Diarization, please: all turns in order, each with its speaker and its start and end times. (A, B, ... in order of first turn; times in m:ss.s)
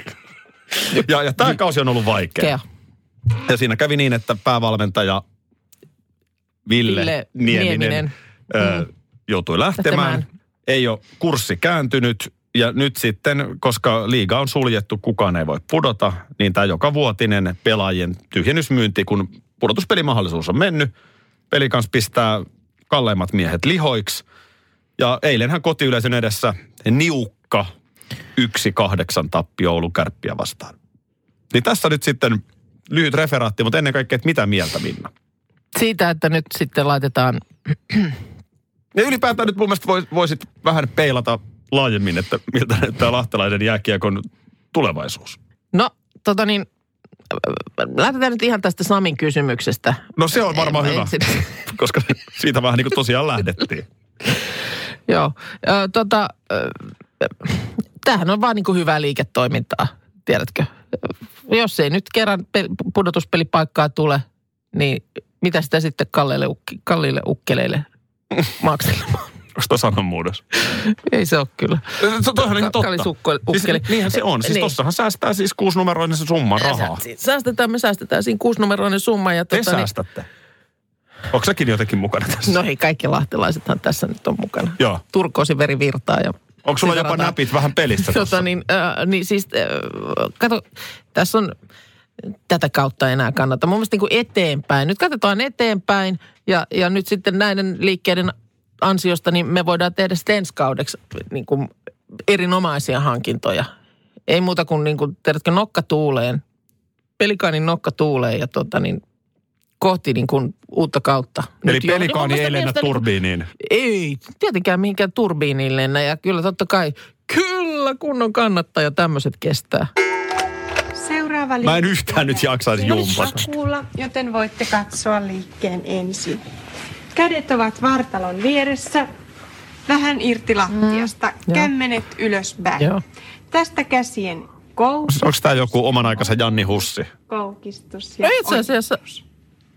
0:00.9-0:01.5 A
0:00.9-0:02.6 B
0:03.4-0:05.2 B
0:06.6-0:20.9 B
0:06.8-0:08.8 A
0:09.8-0:10.2 A
0:21.5-0:24.2 B
0:25.0-0:27.7 B
0:28.4-0:30.8 B
0:31.5-0:35.1 B
0:35.7-0:38.2 A
0:38.9-0:45.4 B
0:45.7-0:46.6 A
0:47.3-0:51.5 A
0:50.2-0:53.8 B
0:55.1-1:07.9 A
1:08.6-1:09.3 A
1:09.5-1:10.4 B
1:10.7-1:14.7 A
1:12.0-1:17.0 B
1:16.6-1:19.9 A
1:19.5-1:20.3 B
1:21.3-1:22.5 B
1:22.4-1:27.4 A
1:26.6-1:28.4 B
1:27.9-1:31.5 A
1:32.5-1:41.7 A
1:42.3-1:43.7 A
1:44.3-1:46.4 A
1:47.2-1:49.0 A
1:49.8-1:53.0 A
1:51.6-1:53.5 B
1:53.6-1:59.9 A
2:00.9-2:06.4 C
2:01.6-2:03.5 B
2:07.1-2:09.1 C
2:09.9-2:12.9 C
2:10.7-2:11.7 A
2:13.5-2:15.3 C
2:15.1-2:17.1 B
2:17.3-2:19.2 C
2:18.2-2:19.0 A